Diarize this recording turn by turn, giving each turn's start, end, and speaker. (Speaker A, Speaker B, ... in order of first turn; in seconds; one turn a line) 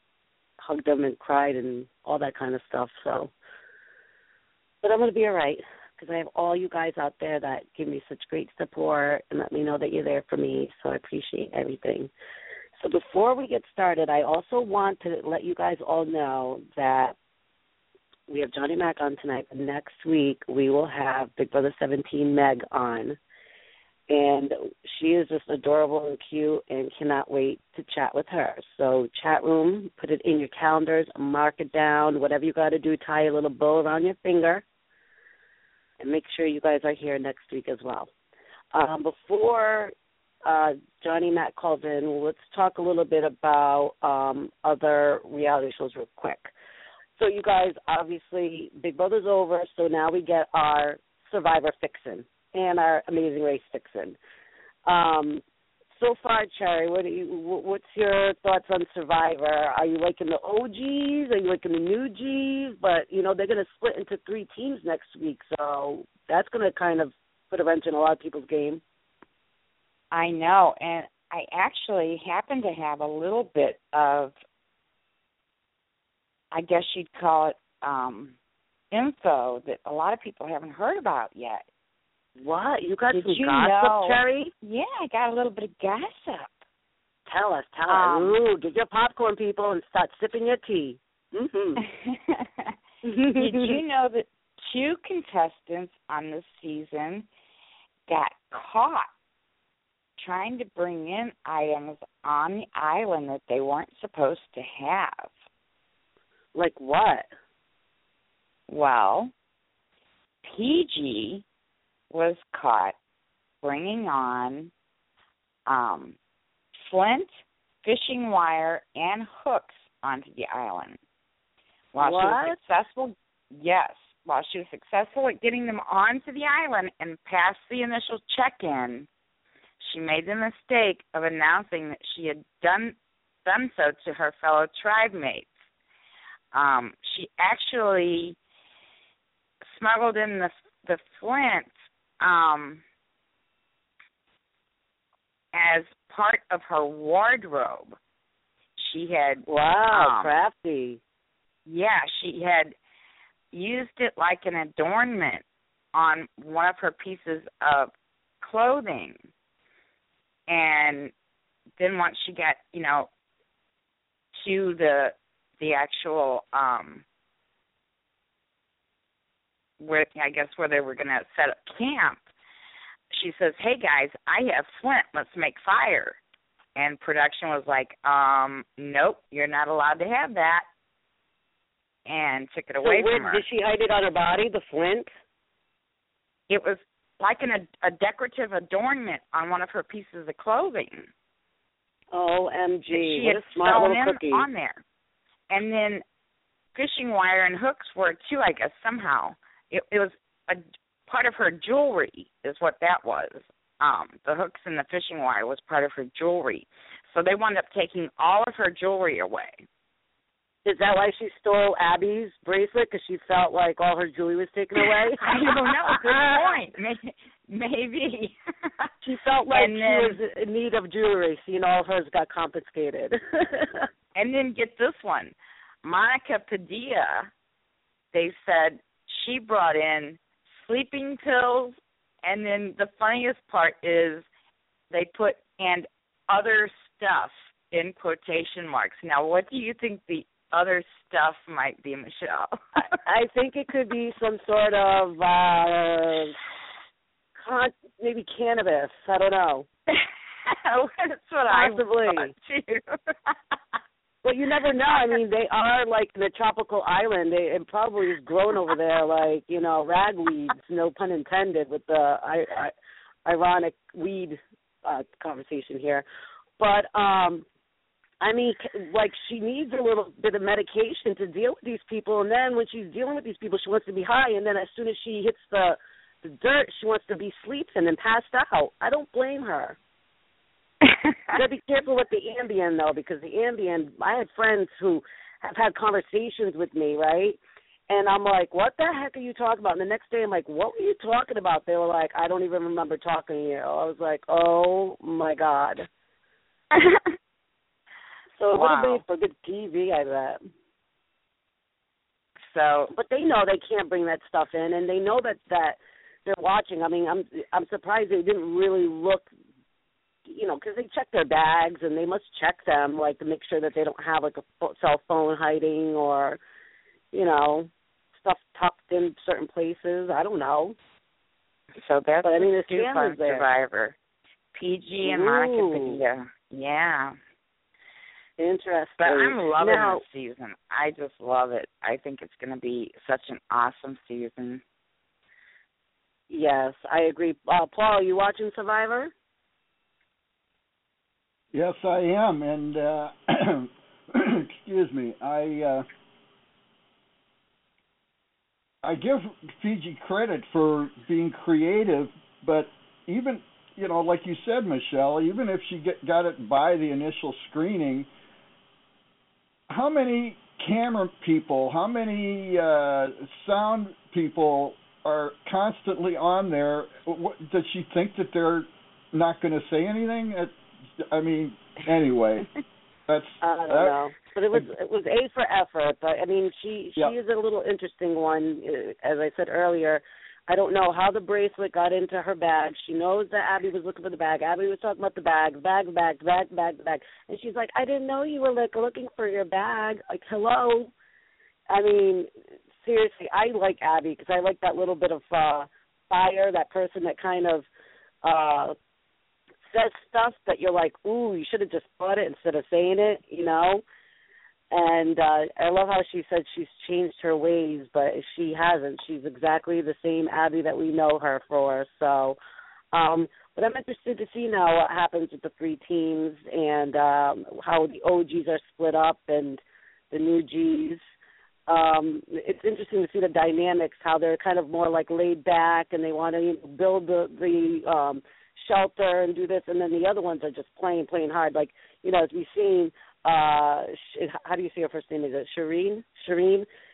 Speaker A: 0.6-3.3
Speaker A: 4.8-12.1
Speaker A: 12.8-17.2
Speaker A: 18.3-23.2
Speaker A: 24.1-34.6
Speaker A: 36.0-38.1
Speaker A: 38.7-39.9
Speaker A: 40.5-46.5
Speaker A: 47.2-54.2
Speaker A: 54.9-55.4
Speaker A: 56.0-68.8
Speaker B: 70.1-74.4
Speaker B: 76.5-78.3
Speaker B: 78.9-81.6
Speaker A: 82.4-84.5
Speaker B: 83.1-86.6
Speaker A: 87.3-91.8
Speaker B: 87.9-88.4
Speaker B: 91.8-92.7
Speaker A: 93.0-93.8
Speaker B: 93.3-97.3
Speaker B: 98.1-99.1
Speaker B: 100.2-105.3
Speaker A: 106.5-107.3
Speaker B: 108.7-109.3
Speaker B: 110.4-111.4
Speaker B: 112.1-113.0
Speaker B: 113.6-114.7
Speaker B: 115.7-116.2
Speaker B: 116.8-117.3
Speaker B: 117.8-121.0
Speaker B: 121.9-129.1
Speaker A: 122.0-122.6
Speaker B: 129.8-135.5
Speaker B: 136.5-138.4
Speaker B: 139.7-142.8
Speaker B: 145.5-148.0
Speaker B: 148.8-150.3
Speaker A: 149.5-151.0
Speaker B: 151.7-152.7
Speaker B: 153.5-157.9
Speaker B: 158.4-159.2
Speaker B: 160.5-161.1
Speaker B: 161.8-163.1
Speaker B: 164.3-167.1
Speaker B: 169.8-172.2
Speaker B: 173.1-176.2
Speaker B: 176.8-180.7
Speaker B: 182.1-183.4
Speaker A: 182.8-185.1
Speaker B: 186.5-191.1
Speaker A: 192.1-194.4
Speaker B: 192.9-194.8
Speaker B: 195.5-196.0
Speaker B: 196.8-209.7
Speaker A: 210.7-216.6
Speaker B: 214.8-218.9
Speaker A: 219.0-223.9
Speaker B: 219.5-220.2
Speaker B: 224.2-227.3
Speaker B: 228.1-234.3
Speaker B: 234.9-242.6
Speaker A: 243.1-246.4
Speaker A: 247.4-249.7
Speaker B: 249.9-253.4
Speaker A: 251.5-252.3
Speaker A: 254.2-262.7
Speaker A: 263.3-266.1
Speaker A: 266.6-267.4
Speaker A: 268.2-279.8
Speaker B: 280.8-281.3
Speaker A: 281.3-295.9
Speaker A: 298.4-300.4
Speaker B: 298.5-299.0
Speaker B: 302.4-302.9
Speaker A: 302.9-309.3
Speaker A: 310.3-316.4
Speaker A: 317.1-317.7
Speaker A: 318.2-320.8
Speaker B: 321.8-324.0
Speaker A: 322.2-323.4
Speaker B: 324.5-327.2
Speaker A: 325.0-326.0
Speaker A: 328.4-330.0
Speaker B: 329.0-334.6
Speaker A: 336.3-339.1
Speaker C: 341.5-345.9
Speaker C: 348.8-358.1
Speaker C: 359.7-372.5
Speaker C: 373.1-374.0
Speaker A: 373.4-390.9
Speaker A: 391.7-392.3
Speaker A: 392.8-397.7
Speaker A: 398.2-398.8
Speaker A: 399.7-403.8
Speaker A: 404.7-412.4
Speaker A: 412.9-421.0
Speaker A: 421.7-436.7